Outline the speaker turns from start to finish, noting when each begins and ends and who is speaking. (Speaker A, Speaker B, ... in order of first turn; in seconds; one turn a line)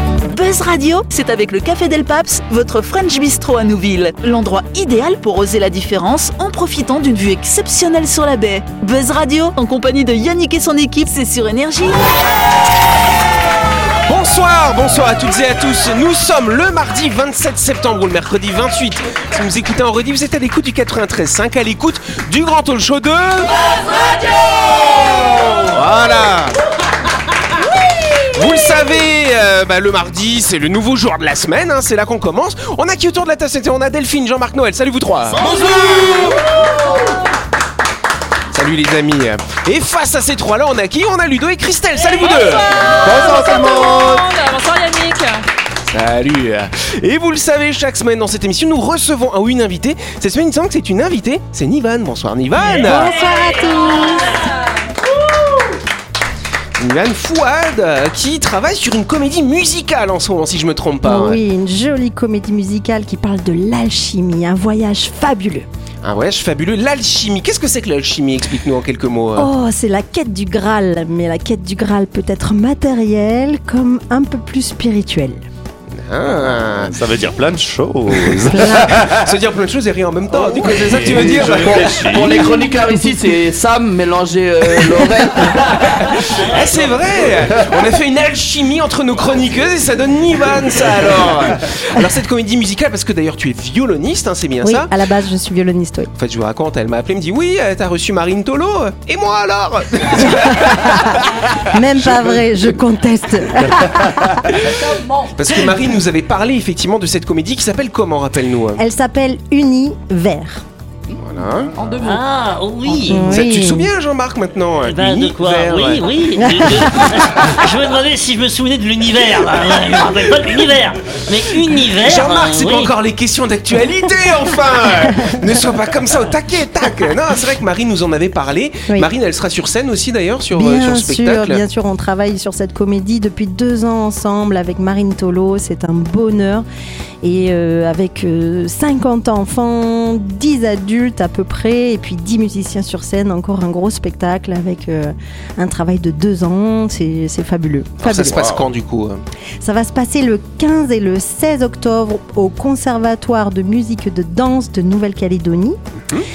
Speaker A: 0.2-12.0
Speaker B: 14.1-23.7
Speaker C: 25.7-26.5
Speaker B: 25.8-26.5
Speaker B: 28.3-35.5
Speaker C: 35.4-36.2
Speaker D: 35.5-36.4
Speaker E: 35.5-37.0
Speaker B: 38.5-42.8
Speaker E: 42.0-45.4
Speaker C: 42.9-44.2
Speaker B: 45.9-53.1
Speaker F: 52.6-54.5
Speaker G: 53.0-54.4
Speaker B: 56.8-61.4
Speaker F: 61.0-65.7
Speaker B: 66.0-69.5
Speaker F: 69.4-75.4
Speaker B: 76.0-76.9
Speaker C: 76.4-79.4
Speaker F: 78.5-79.0
Speaker B: 79.0-82.2
Speaker C: 80.3-82.5
Speaker D: 81.1-85.9
Speaker F: 82.3-83.1
Speaker B: 85.9-94.9
Speaker G: 86.3-87.0
Speaker F: 94.6-96.1
Speaker B: 96.2-101.3
Speaker F: 100.2-104.6
Speaker B: 102.0-102.4
Speaker E: 104.8-105.3
Speaker B: 105.3-108.8
Speaker F: 108.8-110.6
Speaker B: 111.1-111.7
Speaker E: 111.7-112.2
Speaker G: 112.0-113.4
Speaker F: 113.0-113.9
Speaker B: 113.1-116.1
Speaker G: 114.8-122.9
Speaker F: 116.4-117.5
Speaker B: 121.9-131.6
Speaker F: 130.5-136.7
Speaker F: 137.2-148.4
Speaker B: 148.0-149.2
Speaker C: 148.2-148.7
Speaker F: 149.6-155.8